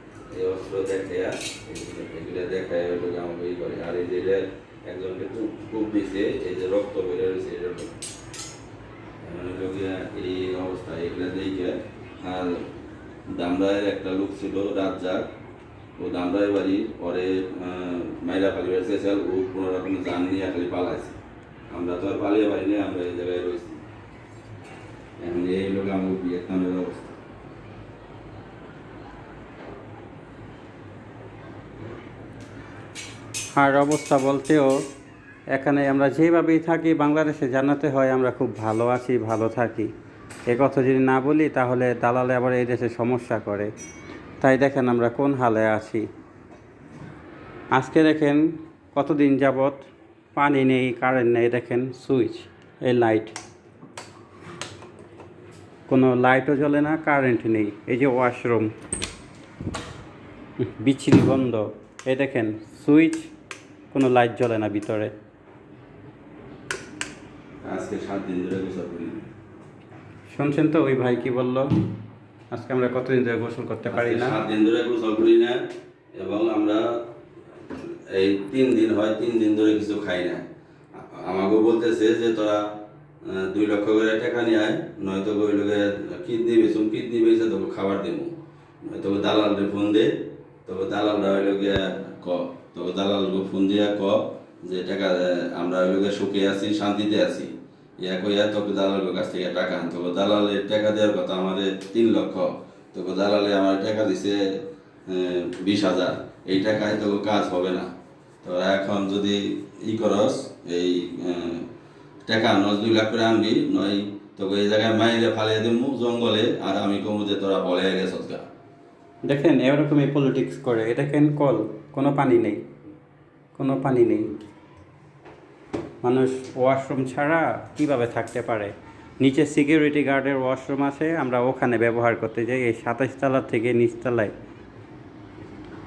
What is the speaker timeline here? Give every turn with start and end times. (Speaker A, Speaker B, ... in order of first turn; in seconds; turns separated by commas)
Speaker A: 0.3-8.0, Speaker A: 9.2-12.7, Speaker A: 13.3-15.3, Speaker A: 16.0-21.2, Speaker A: 21.7-23.8, Speaker A: 25.2-27.2, Speaker B: 33.6-34.7, Speaker B: 35.5-39.9, Speaker B: 40.5-43.7, Speaker B: 44.4-46.0, Speaker B: 47.8-48.4, Speaker B: 48.9-53.4, Speaker B: 55.9-58.7, Speaker B: 60.6-63.3, Speaker B: 63.9-65.1, Speaker A: 67.6-69.3, Speaker B: 70.4-71.7, Speaker B: 72.5-74.4, Speaker A: 73.9-75.6, Speaker A: 76.2-76.9, Speaker A: 78.1-82.6, Speaker A: 83.2-90.1, Speaker A: 90.7-107.9, Speaker A: 108.4-111.7, Speaker A: 112.2-118.5, Speaker B: 119.3-122.6, Speaker B: 123.6-124.3, Speaker B: 126.0-134.3